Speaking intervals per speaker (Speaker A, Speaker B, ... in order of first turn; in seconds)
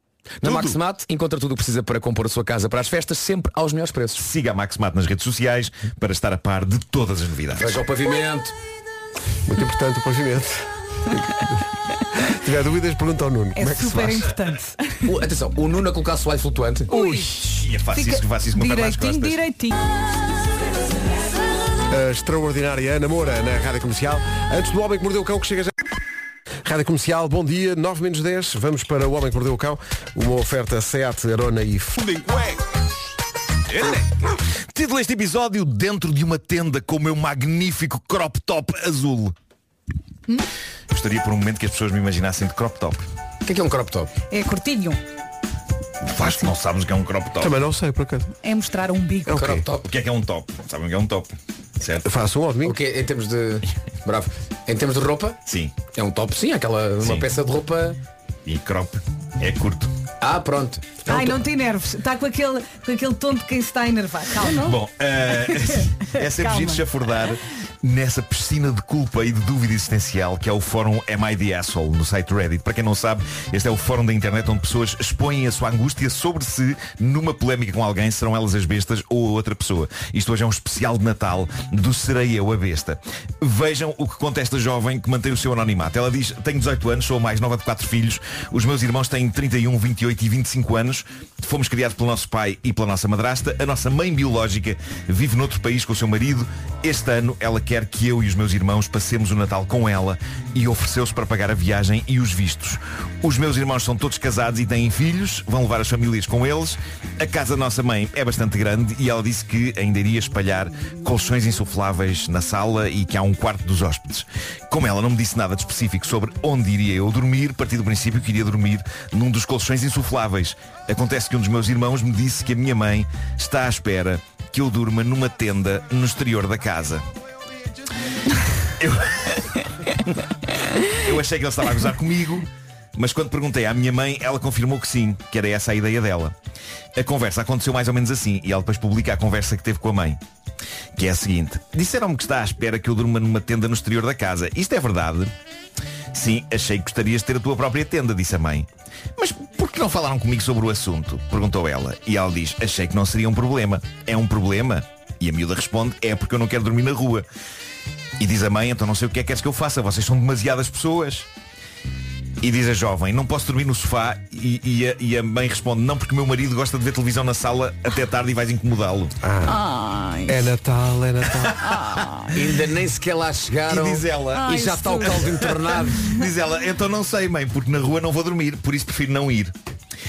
Speaker A: 0.4-4.2, 7.6-8.5, 15.0-16.9, 43.4-44.1, 49.3-49.9, 52.6-58.0, 60.2-60.9, 172.3-176.1
Speaker B: 0.4-0.8, 4.2-7.8, 17.3-19.4, 32.1-32.5, 33.7-39.4, 40.9-43.0, 46.0-47.5, 49.9-52.0, 55.5-55.8, 57.0-57.3, 58.5-59.9, 64.5-127.1, 128.8-129.6, 130.9-136.3, 136.9-140.2, 140.9-145.3, 146.1-157.2, 158.2-161.3, 162.4-169.1, 173.7-174.5, 175.2-175.5, 176.0-179.5
Speaker C: 9.4-11.5, 12.1-14.3, 16.9-17.3, 21.9-25.9, 26.6-32.1, 47.4-48.3, 49.3-49.6, 52.0-52.8, 61.1-61.4, 169.2-169.6, 170.3-171.7
Speaker D: 13.6-15.1, 16.9-17.3, 17.9-19.7, 44.3-45.0, 48.4-49.4, 61.1-64.7, 65.5-66.8, 169.4-170.5, 171.6-172.3, 174.3-175.2